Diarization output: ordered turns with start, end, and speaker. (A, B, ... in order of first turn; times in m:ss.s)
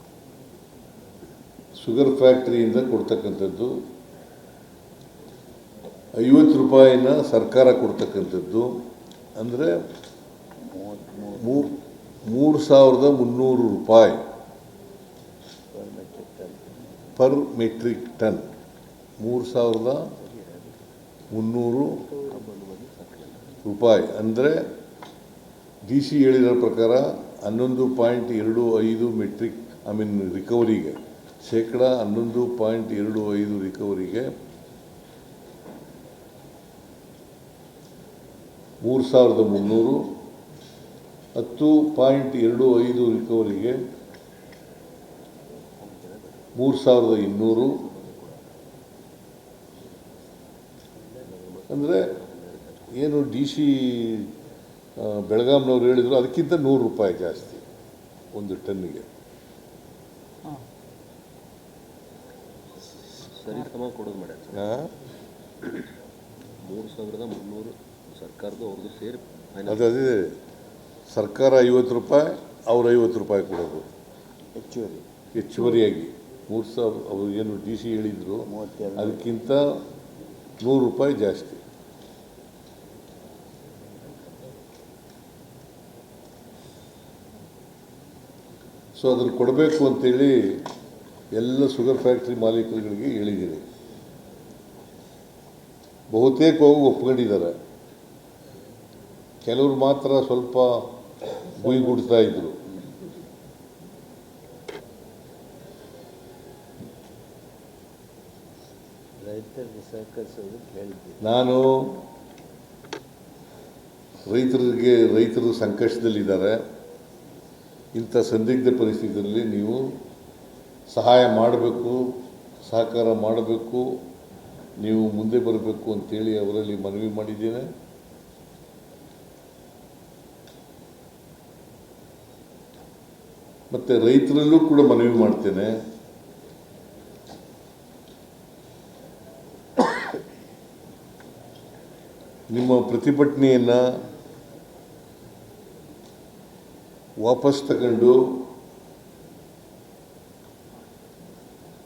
0:01.8-0:03.8 A
0:06.2-0:08.8 A
0:09.4-0:09.8 A
0:10.7-0:11.7 B
0:11.4-0:14.2 A
0:15.7-0:16.8 B
0:17.2-0:18.4 A
0:19.2-0:20.1 A
0:20.2-0:20.8 B
0:21.3-0:22.1 A
0:22.0-0:23.5 C
0:23.6-0:24.7 A
0:25.8-0:34.3 A
0:38.8-0:40.2 A
0:41.4-0:43.8 A
0:45.8-0:46.5 C
0:46.6-0:47.8 A
0:47.4-0:48.5 C
0:51.2-0:52.9 C
0:51.7-0:52.2 A
0:52.9-0:54.3 A
0:55.0-0:57.6 A
0:58.3-0:59.1 A
1:03.3-1:04.6 C
1:04.5-1:04.9 A
1:06.6-1:09.8 C
1:09.7-1:10.4 A
1:11.1-1:13.9 A
1:14.6-1:15.0 B
1:15.4-1:19.8 A
1:18.5-1:19.3 B
1:20.6-1:21.6 A
1:29.0-1:30.7 A
1:31.3-1:33.6 A
1:36.1-1:37.6 A
1:39.4-1:42.6 A
1:41.5-1:42.5 B
1:49.2-1:51.2 B
1:51.2-1:52.0 A
1:54.3-1:56.6 A
1:58.0-2:00.0 A
2:00.9-2:04.0 A
2:04.8-2:07.7 A
2:13.7-2:15.7 A
2:22.5-2:23.8 A
2:27.2-2:28.5 A